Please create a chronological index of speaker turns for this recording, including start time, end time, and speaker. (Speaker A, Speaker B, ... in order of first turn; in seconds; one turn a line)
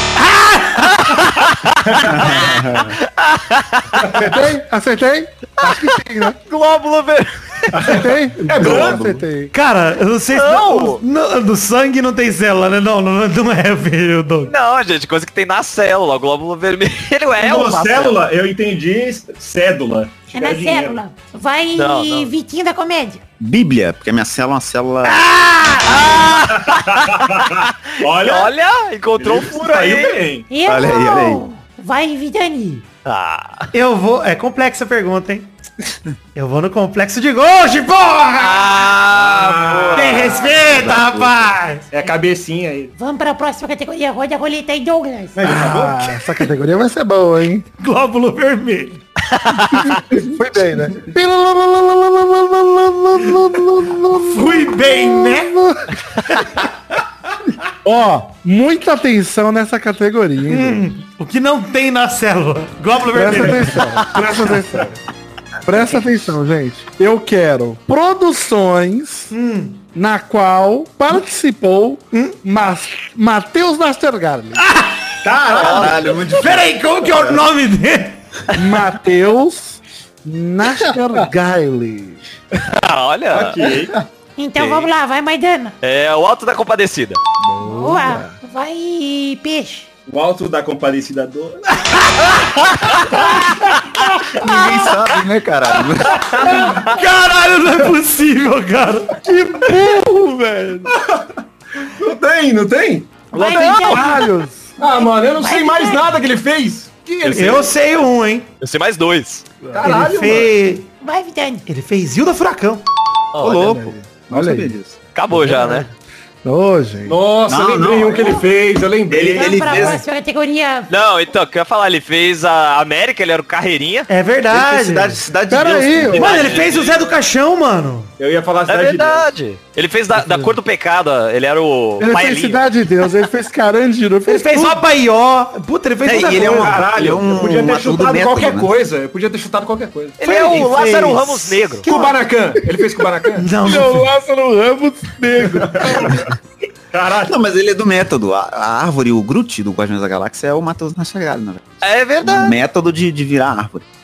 Speaker A: 0.2-1.4
Speaker B: 1.2-4.2
Speaker C: 2.2-2.8
Speaker D: 4.2-6.4
Speaker B: 5.6-8.0
Speaker E: 7.7-9.1
Speaker D: 7.8-9.5
Speaker C: 8.6-9.2
Speaker A: 9.5-14.5
Speaker B: 10.3-11.0
Speaker B: 14.5-18.1
Speaker E: 17.4-21.0
Speaker F: 20.3-23.2
Speaker B: 21.7-22.3
Speaker C: 23.4-25.3
Speaker F: 25.4-25.8
Speaker B: 25.8-30.2
Speaker E: 26.1-28.5
Speaker E: 29.2-30.5
Speaker F: 30.5-32.9
Speaker C: 30.7-31.4
Speaker B: 33.0-33.7
Speaker A: 33.7-35.5
Speaker A: 36.4-38.9
Speaker B: 38.4-40.7
Speaker E: 39.1-40.5
Speaker A: 39.9-41.9
Speaker C: 40.6-41.4
Speaker E: 41.9-42.9
Speaker F: 43.0-45.5
Speaker A: 45.4-46.4
Speaker E: 45.4-45.8
Speaker D: 45.5-47.7
Speaker A: 47.8-49.0
Speaker B: 49.3-50.0
Speaker D: 49.7-56.0
Speaker A: 54.1-55.5
Speaker A: 56.3-56.6
Speaker D: 57.9-60.9
Speaker A: 60.5-63.8
Speaker D: 63.1-65.0
Speaker D: 65.6-69.3
Speaker A: 69.3-69.8
Speaker D: 70.0-74.7
Speaker A: 74.6-75.0
Speaker E: 75.2-76.2
Speaker C: 75.5-77.4
Speaker B: 75.6-75.9
Speaker A: 76.4-78.2
Speaker D: 78.5-82.2
Speaker B: 82.7-83.6
Speaker E: 83.3-84.0
Speaker F: 84.4-85.8
Speaker B: 84.6-84.9
Speaker B: 85.8-87.2
Speaker D: 87.4-88.4
Speaker F: 87.6-89.9
Speaker E: 90.1-92.4
Speaker C: 94.3-96.5
Speaker A: 96.4-99.2
Speaker D: 99.2-100.9
Speaker E: 100.9-104.0
Speaker F: 103.3-104.3
Speaker D: 103.3-104.8
Speaker E: 104.8-107.8
Speaker F: 104.8-106.1
Speaker A: 107.3-108.5
Speaker B: 108.6-109.5
Speaker D: 109.6-110.0
Speaker E: 109.7-110.6
Speaker A: 109.8-110.9
Speaker F: 111.0-111.7
Speaker A: 111.7-112.8
Speaker B: 113.3-113.7
Speaker C: 113.4-115.0
Speaker D: 113.5-114.7
Speaker B: 115.1-115.9
Speaker D: 115.3-115.8
Speaker D: 116.4-117.2
Speaker E: 117.1-119.9
Speaker C: 117.5-118.5
Speaker C: 119.1-120.0
Speaker F: 119.4-120.9
Speaker B: 120.9-124.1
Speaker A: 124.1-125.2
Speaker C: 124.5-126.5
Speaker D: 125.5-126.3
Speaker B: 126.2-127.1
Speaker A: 126.2-128.1
Speaker E: 128.2-129.3
Speaker B: 128.7-132.6
Speaker A: 130.2-130.5
Speaker D: 132.0-134.8
Speaker A: 134.3-136.8
Speaker C: 136.1-138.7
Speaker E: 136.5-140.2
Speaker B: 140.2-141.9
Speaker A: 140.2-142.1
Speaker E: 141.8-143.5
Speaker A: 143.4-144.1
Speaker D: 143.6-146.3
Speaker E: 145.4-146.3
Speaker E: 146.9-147.4
Speaker C: 147.3-153.9
Speaker B: 151.8-152.6